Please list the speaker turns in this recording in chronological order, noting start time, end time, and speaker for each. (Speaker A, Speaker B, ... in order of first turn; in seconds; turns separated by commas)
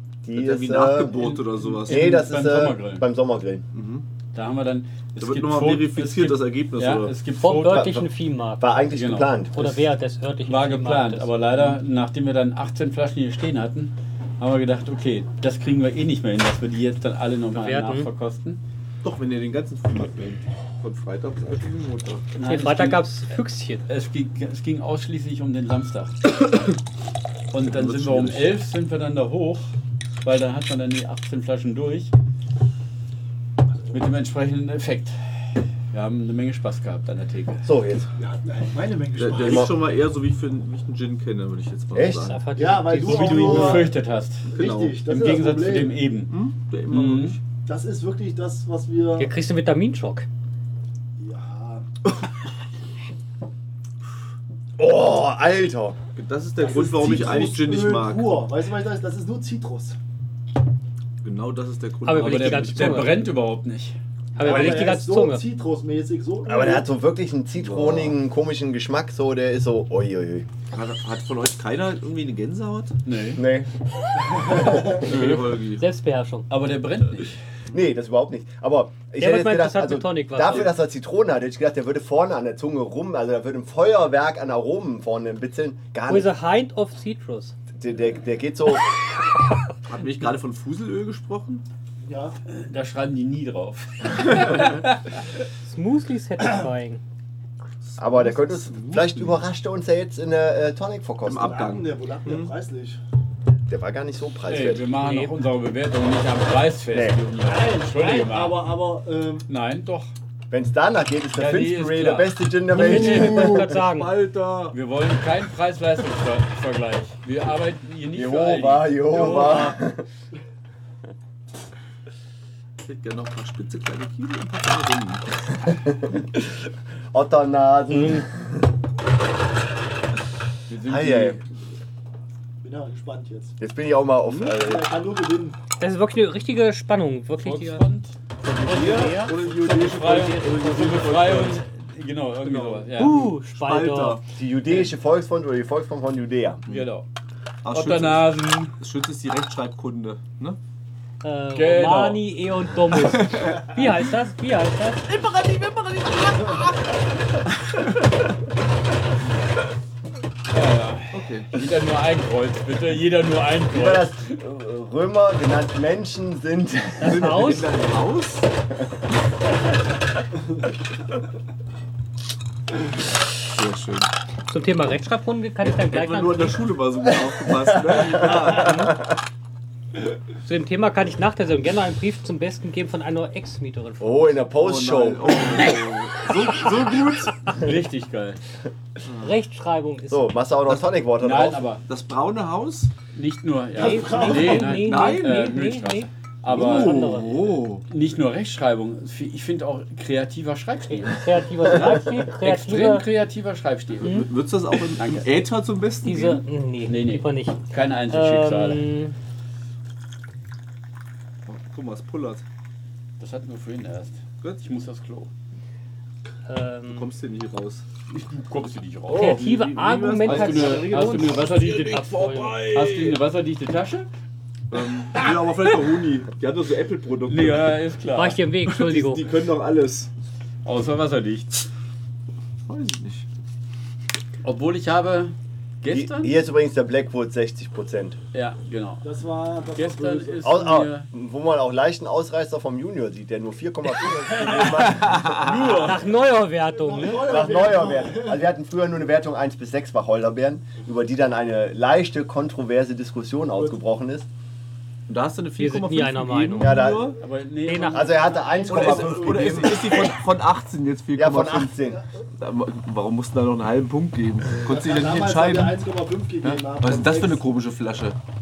Speaker A: 0.2-1.2, Speaker B: 0.3-2.2, Speaker C: 1.2-3.0, Speaker A: 1.8-3.6, Speaker B: 3.7-4.0, Speaker C: 4.3-8.0, Speaker B: 5.2-7.2, Speaker D: 7.4-8.8, Speaker A: 7.7-8.0, Speaker A: 8.6-9.6, Speaker C: 8.9-9.8, Speaker D: 9.5-11.5, Speaker C: 10.4-18.6, Speaker D: 17.5-18.1, Speaker B: 19.0-22.3, Speaker C: 22.4-23.0, Speaker D: 22.4-23.8, Speaker C: 23.9-26.4, Speaker C: 27.5-29.7, Speaker B: 27.7-28.5, Speaker C: 30.2-32.1, Speaker C: 33.9-37.7, Speaker A: 37.6-38.1, Speaker E: 38.2-39.7, Speaker B: 39.2-42.5, Speaker A: 39.4-39.7, Speaker A: 41.9-42.3, Speaker D: 42.2-43.9, Speaker E: 42.6-44.0, Speaker C: 42.9-46.3, Speaker B: 44.5-45.0, Speaker E: 44.5-46.0, Speaker B: 46.3-47.4, Speaker C: 46.9-47.4, Speaker E: 47.6-49.3, Speaker D: 49.2-50.3, Speaker E: 51.2-51.9, Speaker A: 54.8-56.0, Speaker B: 56.1-58.4, Speaker E: 56.6-60.0, Speaker B: 61.2-63.2, Speaker D: 62.0-63.2, Speaker C: 62.1-64.0, Speaker D: 64.4-65.4, Speaker E: 64.4-66.9, Speaker A: 64.5-64.9, Speaker A: 66.5-70.5, Speaker B: 67.6-68.1, Speaker B: 70.7-73.0, Speaker C: 73.1-73.4, Speaker A: 73.4-73.7, Speaker E: 74.3-75.0, Speaker B: 74.7-75.8, Speaker C: 75.0-75.6, Speaker D: 75.8-76.5, Speaker C: 76.5-77.4, Speaker A: 77.7-86.3, Speaker D: 79.2-80.8, Speaker D: 86.1-87.6, Speaker A: 87.8-88.9, Speaker B: 89.9-91.6, Speaker E: 92.0-92.4, Speaker C: 92.5-94.9, Speaker D: 95.6-97.0, Speaker B: 97.8-99.4, Speaker A: 98.0-101.6, Speaker B: 101.3-102.5, Speaker E: 101.4-103.0, Speaker A: 103.7-104.9, Speaker C: 104.5-108.7, Speaker D: 105.0-105.3, Speaker A: 106.9-107.2, Speaker E: 107.4-109.5, Speaker C: 109.5-110.1, Speaker A: 110.5-113.7, Speaker C: 111.3-113.6, Speaker D: 112.7-114.2, Speaker B: 113.0-114.8, Speaker C: 114.7-119.7, Speaker A: 118.1-120.1, Speaker B: 119.1-119.7, Speaker B: 122.8-125.2, Speaker A: 125.7-126.6, Speaker A: 127.1-128.6, Speaker D: 127.9-128.2, Speaker C: 130.7-131.4, Speaker A: 130.9-131.4, Speaker E: 132.6-133.6, Speaker A: 133.6-134.9, Speaker B: 134.3-134.5, Speaker E: 134.4-135.6, Speaker D: 135.8-137.8, Speaker C: 137.4-138.2, Speaker B: 138.4-141.6, Speaker D: 138.6-140.9, Speaker C: 139.0-143.2, Speaker B: 142.4-144.2, Speaker D: 143.0-144.2, Speaker A: 144.3-146.6, Speaker C: 146.7-147.1, Speaker B: 147.6-150.6, Speaker C: 147.7-148.8, Speaker D: 151.2-155.1, Speaker C: 151.5-152.3, Speaker B: 152.9-153.8, Speaker B: 155.1-157.0, Speaker C: 160.5-164.3, Speaker B: 161.1-161.6, Speaker A: 163.7-167.6, Speaker D: 167.0-167.7, Speaker B: 167.0-168.5, Speaker B: 173.4-174.1, Speaker D: 174.5-176.7, Speaker B: 175.6-179.0, Speaker A: 177.9-179.0, Speaker D: 180.4-184.3, Speaker A: 184.0-185.5, Speaker B: 184.6-187.4, Speaker C: 187.5-188.4, Speaker B: 189.1-189.3, Speaker D: 189.2-190.3, Speaker A: 190.1-191.6, Speaker C: 191.2-191.8, Speaker B: 191.8-192.9, Speaker C: 193.1-197.2, Speaker E: 193.7-194.7, Speaker D: 193.8-197.6, Speaker B: 194.4-195.7, Speaker B: 196.5-197.8, Speaker C: 197.9-201.4, Speaker D: 200.9-203.1, Speaker B: 201.6-202.3, Speaker C: 202.4-204.3, Speaker B: 204.0-206.4, Speaker C: 205.0-205.3, Speaker D: 206.0-209.2, Speaker C: 206.9-208.9, Speaker B: 211.5-212.4, Speaker C: 213.2-215.3, Speaker D: 216.5-217.1, Speaker B: 216.9-217.8, Speaker C: 218.1-219.4, Speaker B: 219.1-223.2, Speaker D: 219.1-222.7, Speaker C: 220.2-224.1, Speaker B: 224.7-227.8, Speaker C: 227.3-228.4, Speaker D: 228.1-229.3, Speaker B: 228.7-230.1, Speaker C: 230.6-231.7, Speaker B: 232.7-233.3, Speaker C: 234.4-236.4, Speaker A: 235.9-238.2, Speaker C: 238.3-239.1, Speaker E: 239.0-240.5, Speaker C: 239.8-241.1, Speaker A: 240.4-245.4, Speaker B: 244.7-245.7, Speaker C: 245.1-246.1, Speaker D: 245.7-247.4, Speaker E: 246.7-248.4, Speaker A: 247.1-254.3, Speaker B: 255.1-257.2, Speaker D: 255.6-256.9, Speaker A: 256.6-257.2, Speaker C: 257.2-258.2, Speaker D: 257.6-258.1, Speaker A: 257.8-260.0, Speaker E: 258.1-259.8, Speaker B: 258.7-261.7, Speaker A: 261.1-262.0, Speaker B: 262.4-265.9, Speaker E: 264.6-267.4, Speaker B: 266.4-268.2